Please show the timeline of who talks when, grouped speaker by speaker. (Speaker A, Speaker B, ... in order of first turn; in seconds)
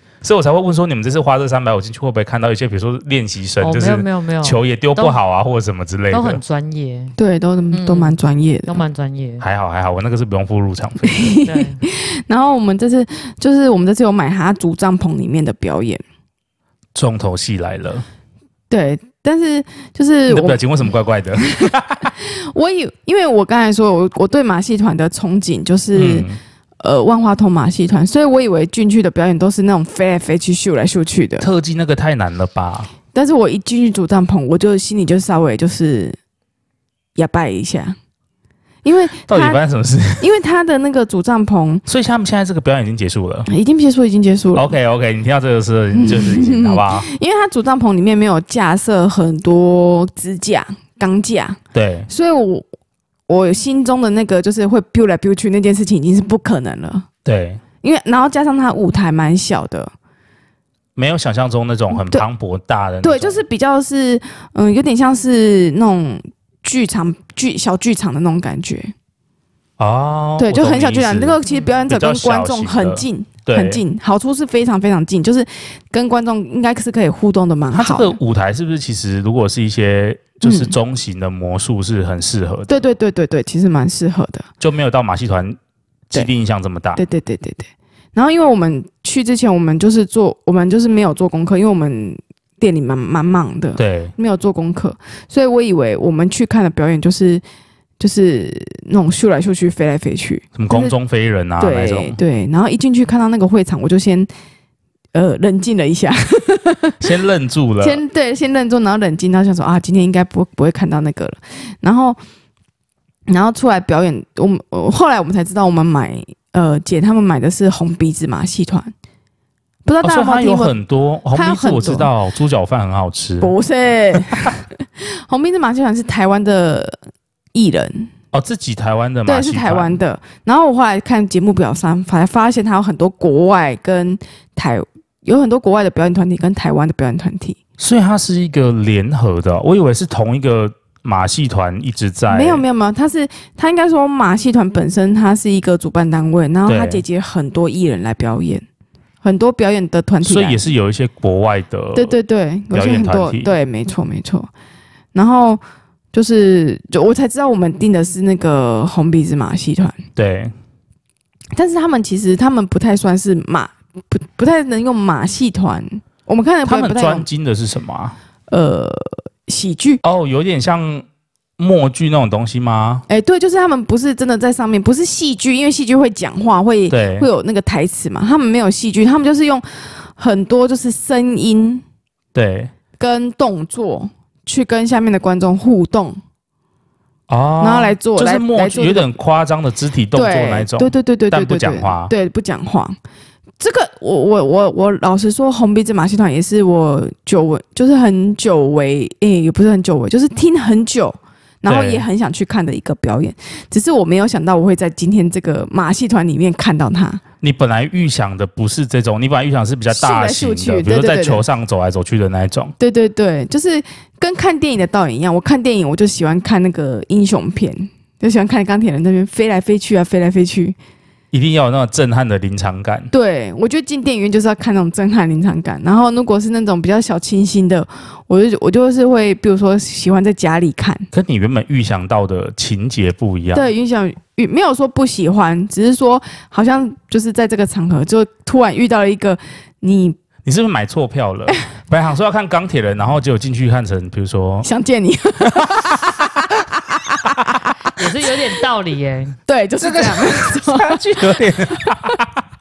Speaker A: 0.2-6.4, 9.4-11.3, 16.9-18.0, 20.3-22.1, 25.9-26.4, 31.4-32.9, 39.2-40.2, 41.9-43.5, 44.5-47.1, 51.7-52.1, 57.2-57.6, 61.0-63.4, 69.8-73.8, 77.7-82.8, 84.6-85.6, 86.1-87.0, 93.8-94.1, 100.5-102.2, 107.0-108.0, 120.0-123.5, 128.3-130.0, 137.8-142.6, 146.7-147.0, 150.2-152.1, 152.7-153.5, 160.2-160.5, 166.6-168.2, 170.0-171.1, 171.6-173.0, 176.9-177.3, 182.3-182.7, 187.3-192.1, 201.7-202.0, 207.4-212.7, 221.3-223.1, 231.1-233.7, 240.4-244.7, 249.8-252.4
Speaker B: 3.6-5.2, 6.1-7.1, 7.7-9.4, 11.4-11.8, 71.5-71.8, 247.9-249.4
Speaker C: 7.2-8.8, 11.0-16.0, 18.7-20.6, 21.6-26.3, 26.8-31.5, 33.1-36.2, 37.1-38.0, 38.8-39.6, 40.2-41.8, 43.5-44.7, 45.9-52.6, 53.3-57.1, 57.8-59.9, 61.9-62.2, 63.0-68.9, 70.4-78.2, 80.4-80.7, 82.7-84.5, 87.0-97.4, 98.0-100.9, 101.6-104.3, 105.1-107.0, 107.8-112.2, 113.3-118.9, 119.8-120.8, 121.3-122.1, 123.4-127.0, 127.5-128.1, 129.2-137.6, 142.3-148.6, 149.2-150.6, 151.9-154.5, 155.1-155.6, 156.1-160.0, 161.5-167.3, 168.5-170.0, 173.1-181.8, 183.0-186.2, 187.6-189.2, 190.1-193.0, 193.6-207.2, 209.9-211.4, 212.8-220.8, 223.1-231.1, 233.5-240.2, 244.6-248.3, 249.5-252.2